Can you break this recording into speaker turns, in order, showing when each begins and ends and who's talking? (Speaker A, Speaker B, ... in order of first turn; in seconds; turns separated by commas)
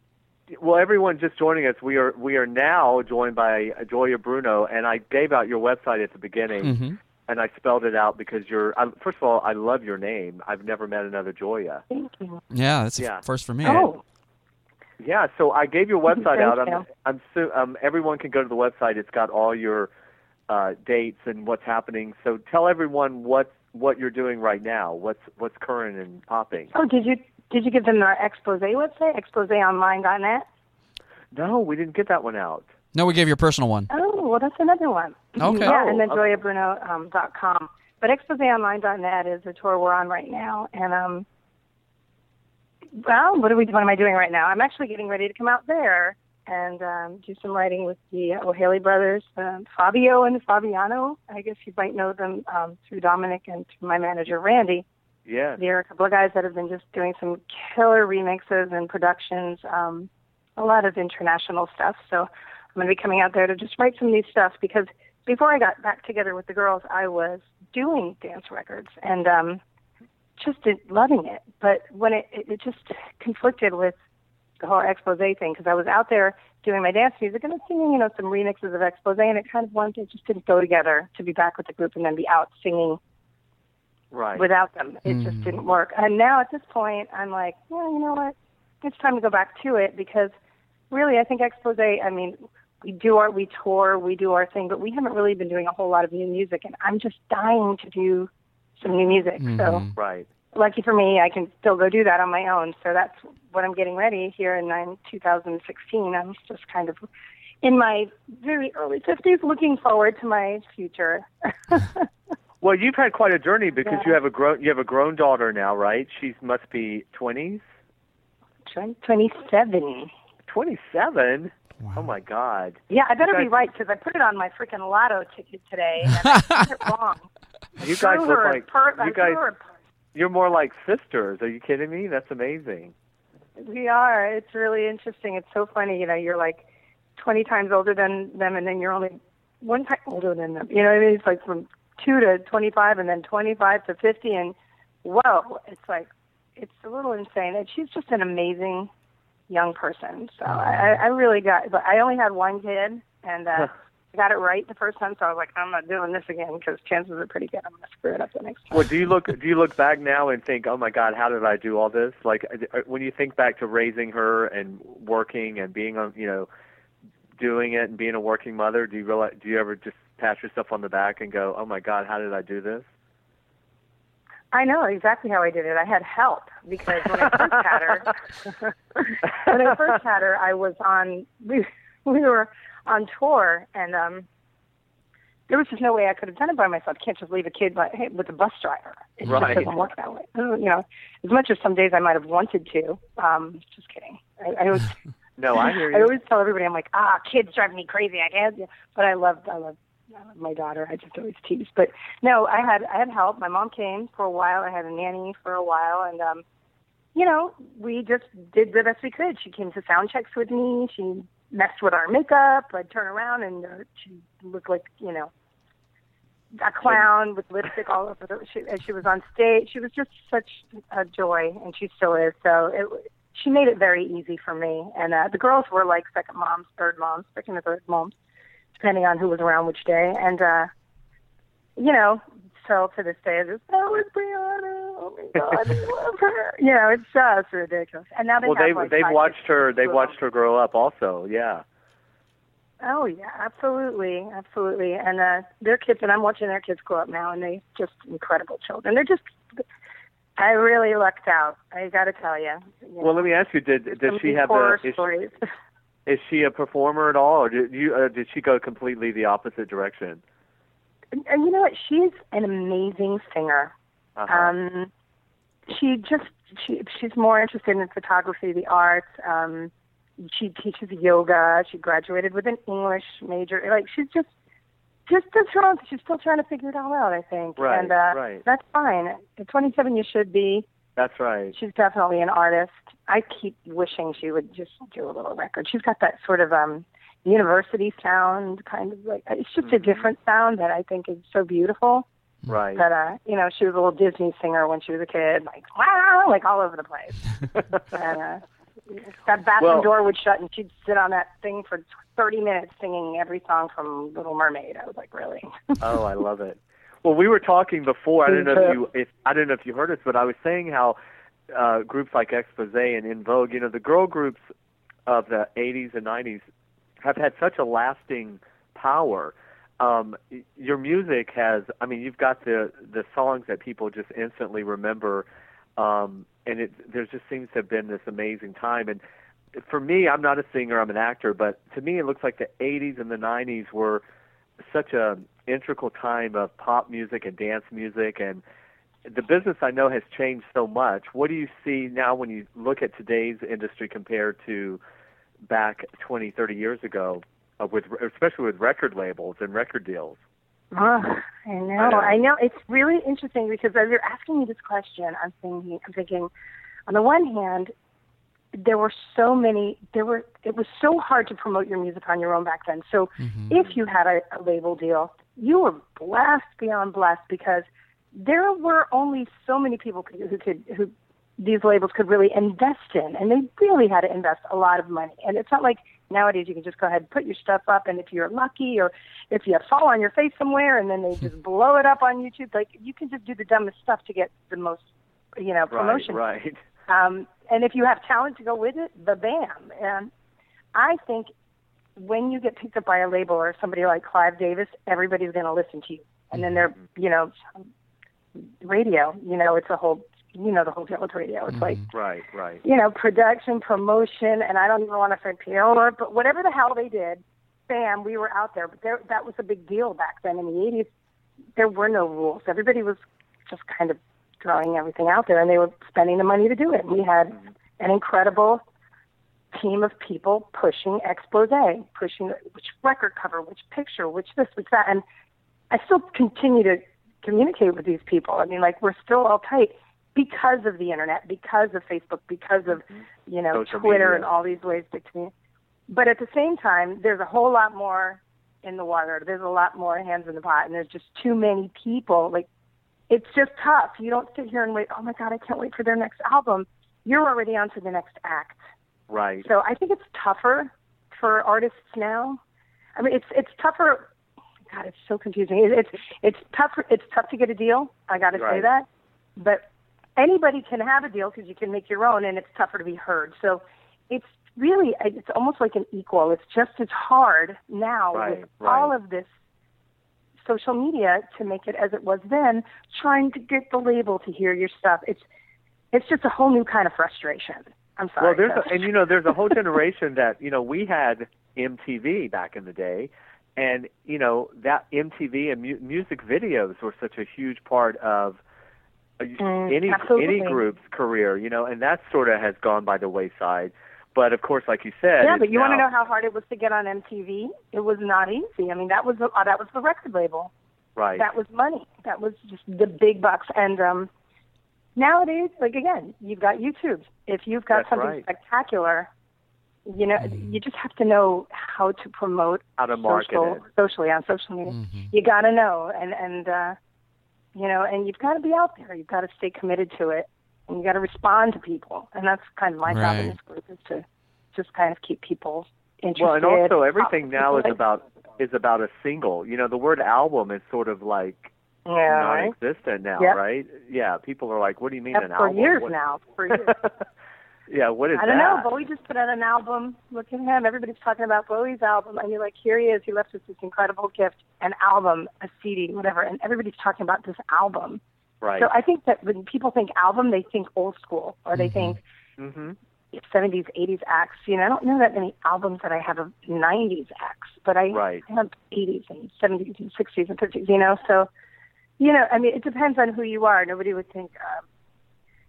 Speaker A: 0.5-11.8, Speaker B: 6.6-7.0, Speaker C: 11.9-12.4, Speaker B: 12.5-13.9, Speaker A: 13.0-13.2, Speaker C: 13.6-14.0, Speaker A: 15.0-19.9, Speaker C: 16.1-16.9, Speaker A: 20.5-26.7, Speaker C: 26.7-30.5, Speaker A: 31.3-32.7, Speaker B: 32.9-33.9, Speaker C: 33.9-41.3, Speaker B: 35.4-35.7, Speaker A: 35.5-36.2, Speaker C: 43.0-54.9, Speaker A: 55.3-55.6, Speaker C: 55.6-69.6, Speaker C: 70.4-74.0, Speaker C: 74.6-83.0, Speaker A: 84.1-84.5, Speaker C: 84.4-90.3, Speaker B: 85.1-85.6, Speaker C: 90.9-99.9, Speaker A: 98.9-99.2, Speaker B: 99.4-99.9, Speaker A: 100.0-100.3, Speaker C: 100.5-107.1, Speaker C: 107.6-112.1, Speaker A: 112.6-117.6, Speaker C: 113.9-114.1, Speaker C: 118.7-120.1, Speaker A: 120.5-123.5, Speaker B: 121.8-122.1, Speaker C: 122.9-127.3, Speaker C: 127.8-129.6, Speaker A: 127.8-129.4, Speaker A: 130.2-132.9, Speaker C: 133.6-136.6, Speaker C: 137.2-148.9, Speaker C: 149.5-158.9, Speaker A: 158.7-166.5, Speaker A: 167.4-172.9, Speaker C: 174.5-184.3, Speaker C: 185.5-195.0, Speaker A: 189.3-189.7, Speaker A: 195.4-196.1, Speaker C: 195.6-206.4, Speaker C: 207.2-215.3, Speaker C: 216.6-228.1, Speaker C: 228.8-230.7, Speaker C: 231.8-240.1, Speaker A: 238.4-241.6, Speaker C: 242.8-249.6, Speaker C: 250.4-253.3, Speaker A: 253.0-255.0, Speaker C: 253.9-255.3, Speaker A: 256.1-260.2, Speaker C: 261.1-263.7, Speaker A: 264.2-264.5, Speaker C: 264.3-264.9, Speaker C: 265.7-274.3, Speaker C: 275.1-280.7, Speaker A: 277.6-278.4, Speaker A: 281.0-281.6, Speaker C: 281.5-292.1, Speaker A: 289.6-290.1, Speaker A: 292.5-292.9, Speaker C: 292.8-297.2, Speaker A: 297.6-297.8, Speaker C: 297.8-298.4, Speaker C: 298.9-305.8, Speaker A: 299.6-299.9, Speaker A: 305.8-311.0, Speaker C: 308.3-308.8, Speaker A: 311.5-314.4, Speaker A: 315.1-316.4, Speaker A: 317.0-325.3, Speaker A: 325.8-329.0, Speaker A: 329.6-334.0, Speaker A: 334.6-338.4, Speaker A: 339.1-344.8, Speaker A: 345.5-350.2, Speaker C: 350.7-356.3, Speaker A: 351.8-352.2, Speaker C: 356.9-357.7, Speaker C: 358.5-386.2, Speaker B: 363.2-363.5, Speaker A: 385.7-386.6, Speaker C: 386.9-390.1, Speaker C: 390.7-391.3, Speaker C: 392.0-397.6, Speaker C: 398.4-401.8, Speaker B: 401.5-401.9, Speaker A: 401.9-402.6, Speaker C: 402.6-410.9, Speaker C: 411.6-418.6, Speaker C: 419.5-425.0, Speaker C: 425.7-435.3, Speaker A: 433.5-434.3, Speaker C: 435.9-442.5, Speaker C: 443.1-448.6, Speaker A: 449.1-449.5, Speaker C: 449.4-452.4, Speaker C: 453.0-454.1, Speaker C: 454.7-458.9, Speaker A: 458.3-458.7, Speaker C: 459.4-459.6, Speaker C: 460.2-469.3, Speaker A: 468.1-468.9, Speaker C: 470.4-475.2, Speaker C: 475.9-479.6, Speaker A: 478.2-488.4, Speaker A: 489.2-495.9, Speaker C: 489.4-490.6, Speaker C: 495.2-500.5, Speaker A: 501.0-501.3, Speaker C: 501.2-504.1, Speaker C: 505.0-509.1, Speaker A: 507.7-508.2, Speaker C: 509.9-516.8, Speaker B: 510.2-510.4, Speaker A: 512.8-513.6, Speaker B: 514.7-515.1, Speaker C: 517.5-527.8, Speaker B: 522.9-523.4, Speaker A: 526.2-531.5, Speaker C: 531.9-532.5, Speaker A: 532.1-535.9, Speaker C: 535.1-536.8, Speaker A: 536.5-536.9, Speaker A: 537.7-538.7, Speaker C: 538.1-548.0, Speaker A: 548.4-548.7, Speaker C: 548.6-552.0, Speaker B: 551.6-552.0, Speaker A: 552.4-552.8, Speaker C: 553.1-561.3, Speaker A: 557.9-558.2, Speaker C: 562.0-564.6